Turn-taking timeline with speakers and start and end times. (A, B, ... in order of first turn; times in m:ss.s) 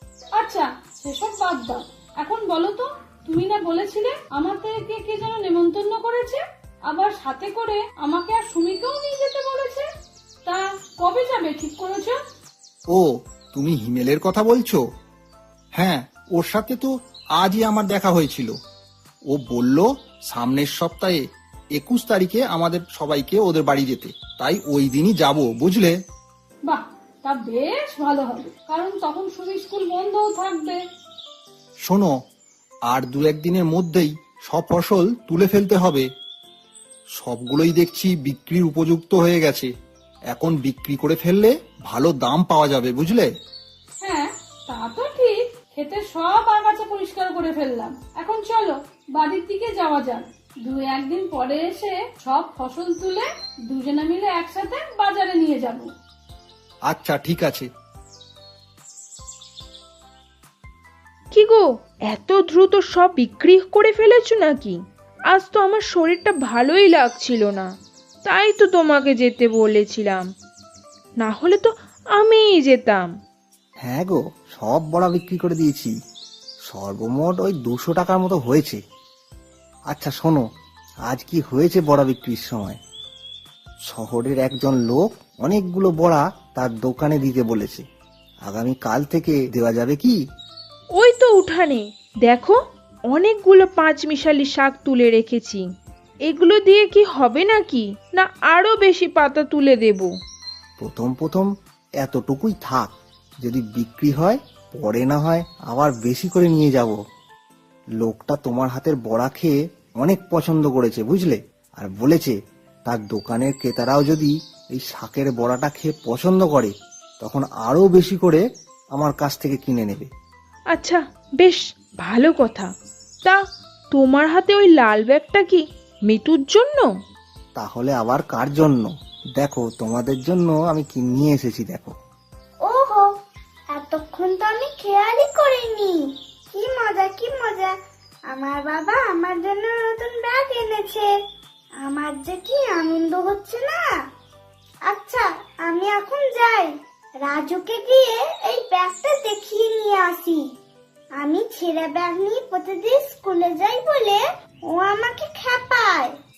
0:00.4-0:09.9 A
0:10.5-0:12.2 A
0:12.9-0:14.8 B
0:15.8-0:18.5 B
0:19.3-0:21.2 B
0:21.8-0:26.0 B
0:26.7-0:30.8 A
0:31.8-0:32.1 B
0:32.9-0:36.1 B
0:37.2-0:39.7 B
0:40.3-0:43.3 B
0:44.0-0:55.9 A
0:56.9-0:57.7 B
1:01.3-1:04.8 C
1:05.3-1:07.7 C
1:08.2-1:10.3 C
1:11.2-1:13.1 C
1:13.8-1:15.9 D
1:16.7-1:18.8 D
1:19.9-1:20.4 D
1:21.1-1:22.8 D
1:23.9-1:27.8 D
1:28.5-1:30.2 D
1:31.0-1:32.6 C
1:33.1-1:35.7 C
1:36.2-1:40.1 C
1:40.8-1:47.0 D
1:48.0-1:58.4 D
1:58.9-2:00.1 D
2:00.7-2:02.7 C
2:03.9-2:06.9 C
2:07.6-2:11.9 D
2:12.7-2:13.0 E
2:13.8-2:15.9 E
2:16.6-2:17.7 E
2:18.4-2:21.1 E
2:21.9-2:23.6 E
2:24.9-2:25.2 E
2:31.2-2:32.1 E
2:33.3-2:34.2 E